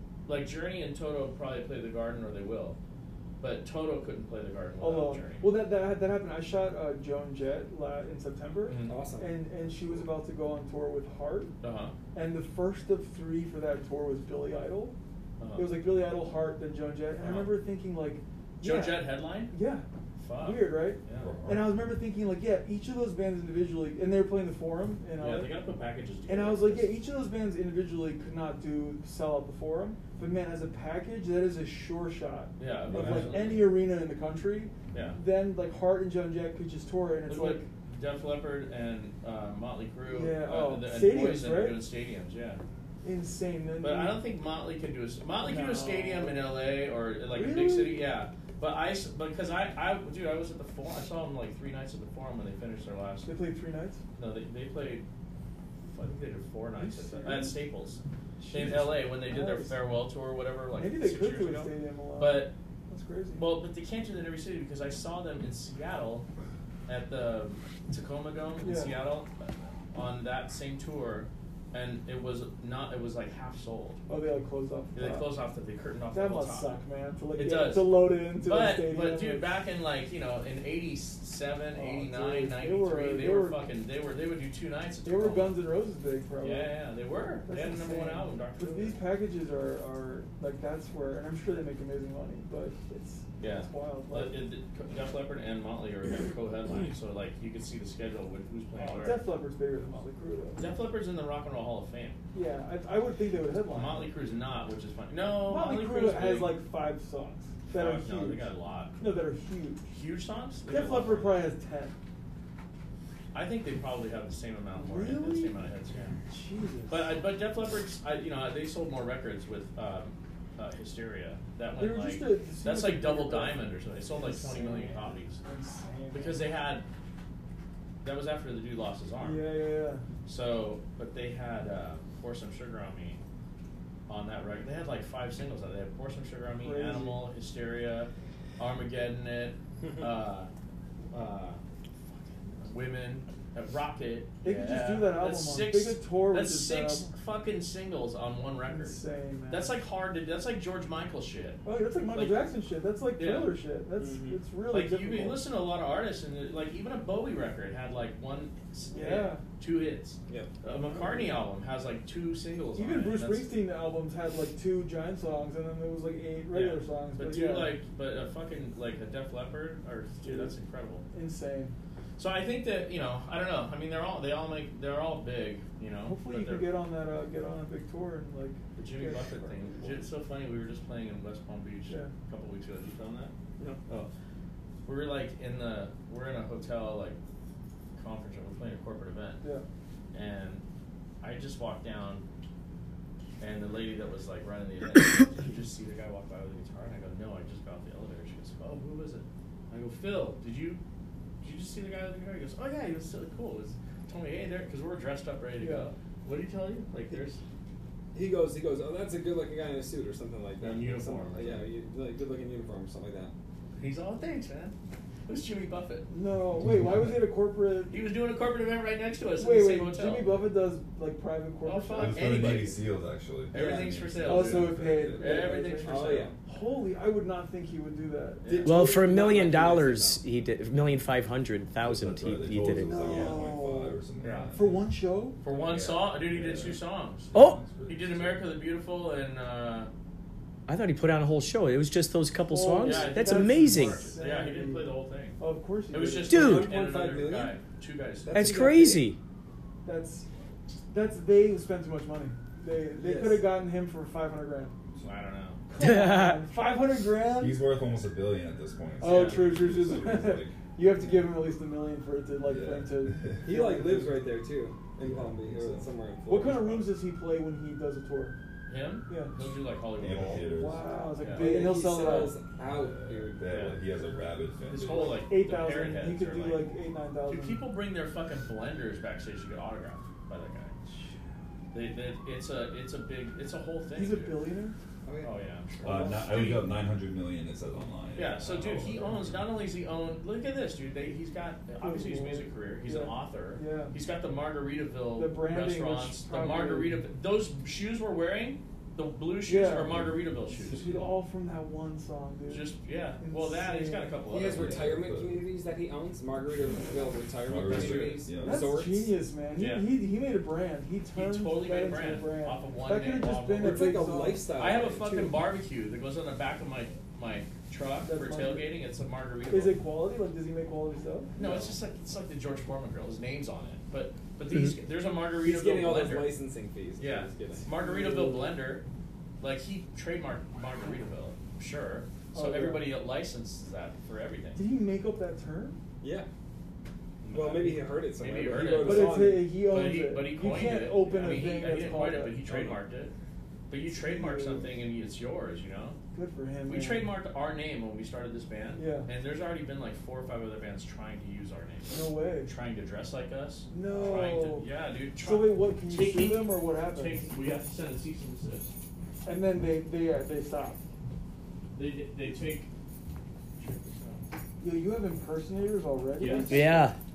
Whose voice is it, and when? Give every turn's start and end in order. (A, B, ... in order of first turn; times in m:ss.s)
0:00.2-0:02.8 A
0:03.4-0:05.6 A
0:04.8-0:11.6 B
0:08.6-0:09.0 A
0:08.8-0:09.5 C
0:11.6-0:12.0 A
0:12.1-0:14.9 B
0:15.4-0:15.9 A
0:15.5-0:19.8 B
0:17.1-0:17.6 A
0:18.6-0:19.6 A
0:20.2-0:21.5 A
0:20.4-0:25.6 B
0:21.1-0:21.9 D
0:25.2-0:27.0 A
0:26.2-0:37.7 B
0:32.6-0:33.8 A
0:32.9-0:33.4 D
0:34.9-0:35.2 A
0:37.2-0:42.6 A
0:40.0-0:41.9 B
0:43.0-0:44.2 B
0:43.8-0:53.4 A
0:45.4-0:46.5 B
0:47.3-0:48.1 B
0:53.2-0:54.0 B
0:54.2-0:55.0 A
0:55.8-1:02.5 A
0:56.7-0:57.6 B
0:58.4-1:00.0 B
1:00.7-1:03.6 B
1:03.3-1:06.2 A
1:06.9-1:14.0 A
1:08.6-1:09.0 B
1:14.1-1:15.3 B
1:14.9-1:25.6 A
1:16.1-1:19.5 B
1:21.7-1:23.7 B
1:25.0-1:26.8 B
1:26.4-1:29.0 A
1:27.4-1:34.4 B
1:33.4-1:39.3 A
1:36.0-1:36.9 B
1:38.7-1:40.7 B
1:40.6-1:42.2 A
1:42.3-1:44.1 B
1:43.6-1:46.6 A
1:45.4-1:49.8 B
1:47.7-1:48.9 A
1:49.9-1:51.5 A
1:50.6-1:52.0 B
1:53.3-1:56.2 A
1:54.7-1:57.2 B
1:56.9-2:05.4 A
2:01.7-2:06.5 B
2:06.1-2:06.9 A
2:08.0-2:09.5 A
2:09.2-2:10.0 B
2:10.2-2:13.2 A
2:14.1-2:20.5 A
2:16.6-2:17.3 B
2:21.1-2:21.6 A
2:22.5-2:32.6 A
2:24.4-2:27.1 B
2:28.6-2:29.8 B
2:31.6-2:35.5 B
2:33.1-2:43.6 A
2:38.9-2:39.5 B
2:40.3-2:40.5 C
2:40.7-2:41.4 B
2:42.6-2:47.8 B
2:46.5-2:51.0 A
2:50.2-2:50.6 B
2:51.1-2:51.7 B
2:52.2-2:56.8 A
2:56.0-3:00.0 B
2:58.7-3:03.3 A
3:01.9-3:02.2 B
3:04.8-3:07.2 A
3:08.0-3:09.5 A
3:10.1-3:10.6 A
3:11.2-3:12.2 A
3:13.4-3:20.8 A
3:21.4-3:27.4 A
3:25.6-3:25.9 B
3:28.1-3:33.3 C
3:30.6-3:31.7 A
3:33.7-3:34.8 A
3:35.3-3:36.1 A
3:36.1-3:38.1 B
3:36.7-3:37.0 D
3:37.9-3:40.5 A
3:39.4-3:42.6 B
3:41.6-3:42.8 A
3:41.9-3:45.7 D
3:43.5-3:46.3 A
3:43.5-3:44.0 C
3:44.2-3:48.9 B
3:45.8-3:46.4 C
3:48.4-3:48.7 A
3:48.4-3:50.2 C
3:48.6-3:53.2 E
3:51.8-3:54.9 D
3:52.7-3:55.4 B
3:54.2-3:54.6 A
3:55.4-3:59.9 A
3:55.6-3:56.8 D
3:57.3-3:57.6 E
3:57.3-3:58.5 D
4:00.7-4:04.0 E
4:02.5-4:06.6 B
4:02.8-4:08.6 A
4:06.3-4:07.6 C
4:06.3-4:06.7 E
4:08.2-4:09.1 C
4:08.3-4:09.2 E
4:09.8-4:10.3 B
4:10.9-4:14.8 B
4:13.0-4:13.4 C
4:15.0-4:15.6 A
4:15.7-4:17.6 B
4:15.8-4:16.4 E
4:17.2-4:21.3 D
4:19.0-4:19.6 A
4:19.0-4:24.2 B
4:22.4-4:23.4 D
4:23.4-4:26.9 C
4:26.3-4:28.4 B
4:28.7-4:32.2 A
4:29.1-4:29.4 B
4:30.0-4:30.9 D
4:30.3-4:32.4 B
4:31.2-4:33.4 C
4:32.4-4:35.3 D
4:33.4-4:33.9 A
4:34.7-4:40.7 A
4:35.1-4:37.7 B
4:41.7-4:44.4 A
4:43.9-4:44.8 B
4:45.0-4:45.3 C
4:45.2-4:46.6 A
4:45.8-4:49.5 D
4:45.8-4:46.7 B
4:48.1-5:01.2 A
4:51.8-4:54.0 B
4:55.1-4:57.0 B
4:59.4-5:04.2 B
4:59.9-5:00.2 D
5:02.4-5:04.9 A
5:04.2-5:09.2 C
5:04.5-5:05.5 D
5:07.4-5:08.8 D
5:08.4-5:14.4 B
5:09.5-5:10.0 A
5:11.1-5:19.8 A
5:13.5-5:15.4 C
5:18.0-5:18.8 B
5:19.4-5:21.3 B
5:21.4-5:26.3 A
5:21.4-5:21.7 C
5:25.3-5:27.6 C
5:27.0-5:28.8 A
5:27.7-5:28.6 B
5:29.4-5:34.6 A
5:32.3-5:32.9 B
5:34.5-5:35.8 B
5:36.0-5:36.3 C
5:37.2-5:43.1 A
5:37.3-5:39.5 C
5:38.8-5:42.8 B
5:43.7-5:46.0 A
5:43.9-5:44.8 B
5:46.1-5:47.2 B
5:46.6-5:58.7 A
5:48.8-5:49.1 B
5:51.9-5:52.5 B
5:53.7-5:57.6 B
5:59.2-6:00.8 B
6:01.8-6:02.7 A
6:03.6-6:04.2 A
6:04.6-6:06.7 B
6:06.2-6:06.6 A
6:06.5-6:07.0 E